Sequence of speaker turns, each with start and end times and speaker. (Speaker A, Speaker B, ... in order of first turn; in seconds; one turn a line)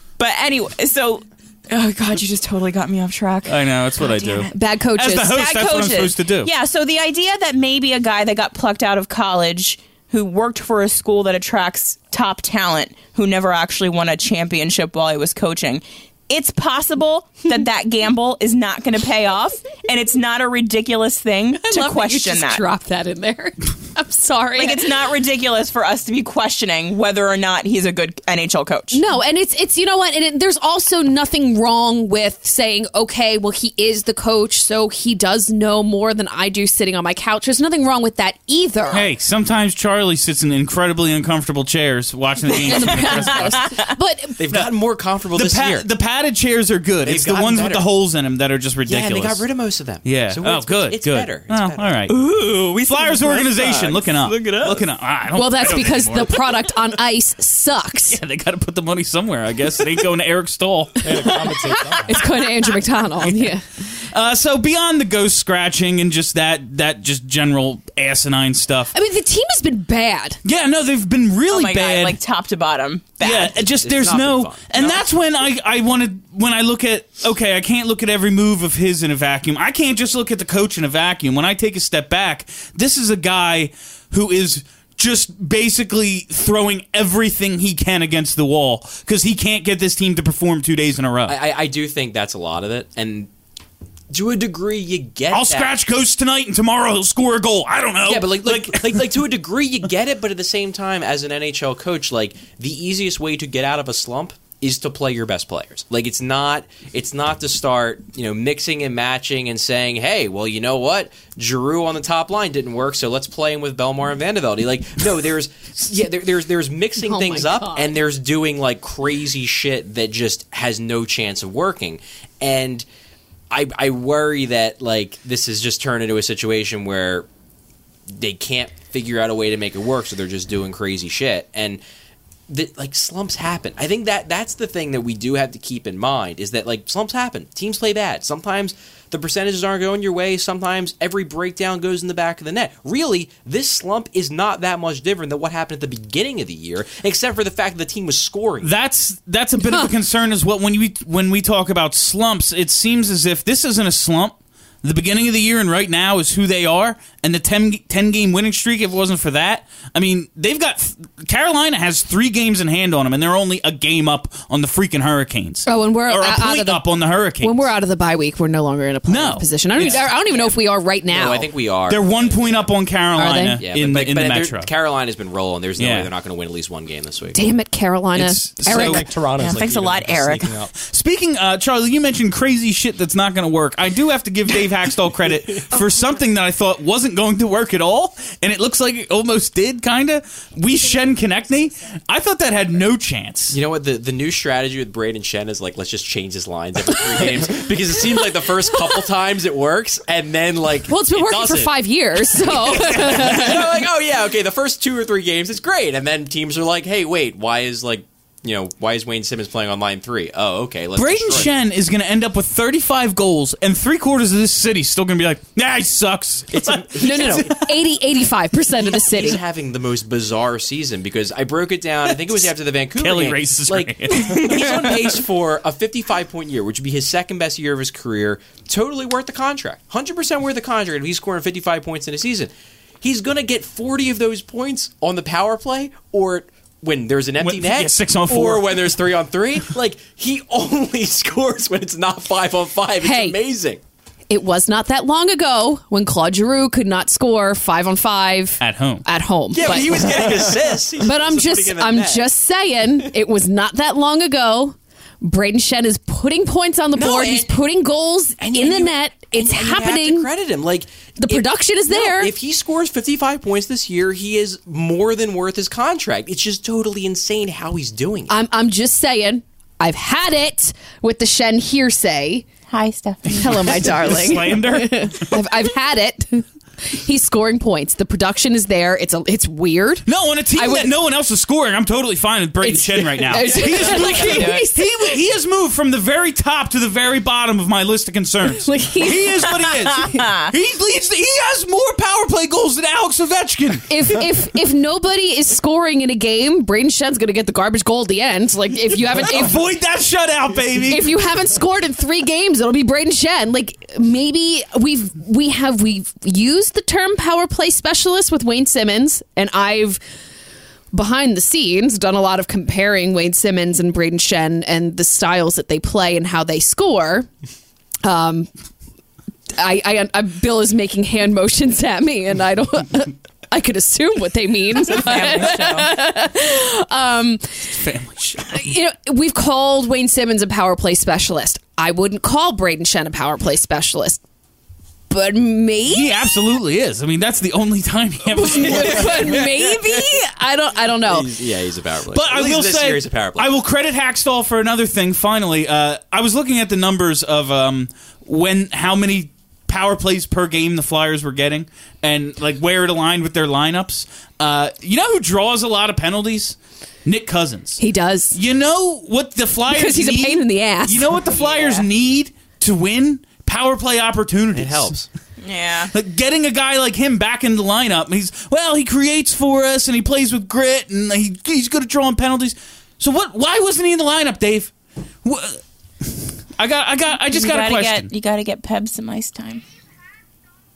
Speaker A: 0.2-4.5
Speaker B: 3.5-6.5
Speaker C: 4.5-5.4
Speaker A: 5.2-22.6
Speaker C: 21.6-24.9
Speaker A: 24.6-29.0
Speaker C: 28.9-39.1
Speaker B: 38.9-43.8
Speaker C: 42.6-44.4
Speaker A: 43.4-43.7
Speaker D: 44.4-45.9
Speaker B: 45.3-49.4
Speaker D: 47.0-47.9
Speaker D: 48.9-52.0
Speaker B: 50.0-52.2
Speaker A: 52.1-54.6
Speaker B: 52.7-56.8
Speaker C: 55.4-58.2
Speaker B: 58.1-61.5
Speaker E: 61.0-62.2
Speaker C: 61.1-63.6
Speaker B: 63.2-68.9
Speaker C: 68.9-70.4
Speaker B: 70.4-72.2
Speaker A: 71.5-73.5
Speaker B: 73.2-91.4
Speaker D: 73.5-75.1
Speaker D: 91.3-93.3
Speaker D: 94.1-95.8
Speaker B: 95.3-99.0
Speaker D: 98.1-122.9
Speaker C: 117.0-117.9
Speaker D: 123.5-127.3
Speaker D: 128.1-131.8
Speaker D: 132.5-148.7
Speaker B: 148.6-167.7
Speaker C: 165.7-166.8
Speaker C: 167.4-171.5
Speaker B: 169.1-170.0
Speaker D: 169.8-170.1
Speaker A: 169.9-170.5
Speaker D: 171.1-172.8
Speaker B: 171.9-174.7
Speaker C: 173.1-173.6
Speaker D: 173.6-177.4
Speaker B: 175.8-176.1
Speaker C: 177.3-179.0
Speaker B: 178.1-179.1
Speaker E: 178.7-180.7
Speaker A: 179.4-180.5
Speaker B: 180.8-193.6
Speaker D: 193.5-201.8
Speaker C: 200.9-203.8
Speaker D: 202.3-211.6
Speaker B: 211.0-217.4
Speaker D: 216.5-217.7
Speaker C: 217.0-219.4
Speaker D: 218.8-243.8
Speaker B: 223.0-225.1
Speaker B: 237.4-239.0
Speaker C: 243.0-243.4
Speaker C: 244.3-260.3
Speaker B: 248.6-249.0
Speaker D: 249.5-252.3
Speaker E: 249.9-250.7
Speaker D: 256.9-257.6
Speaker D: 258.4-268.3
Speaker C: 261.2-262.3
Speaker C: 268.3-272.5
Speaker A: 272.7-273.9
Speaker B: 273.3-275.4
Speaker C: 273.4-280.9
Speaker B: 280.1-293.9
Speaker C: 282.6-285.0
Speaker A: 283.5-284.6
Speaker C: 288.5-290.2
Speaker C: 293.9-299.6
Speaker B: 299.2-301.1
Speaker C: 300.9-310.0
Speaker C: 310.9-317.3
Speaker C: 318.0-318.5
Speaker C: 319.6-327.6
Speaker A: 324.9-325.9
Speaker B: 327.7-328.5
Speaker C: 328.5-334.2
Speaker C: 335.1-336.1
Speaker B: 335.9-339.3
Speaker C: 338.3-341.3
Speaker D: 338.8-340.0
Speaker D: 341.0-343.5
Speaker B: 342.1-357.8
Speaker C: 357.8-358.4
Speaker B: 358.3-365.0
Speaker C: 359.7-361.2
Speaker A: 361.3-361.8
Speaker D: 364.5-365.1
Speaker A: 365.4-365.9
Speaker B: 365.9-374.7
Speaker B: 375.2-378.1
Speaker A: 377.1-379.6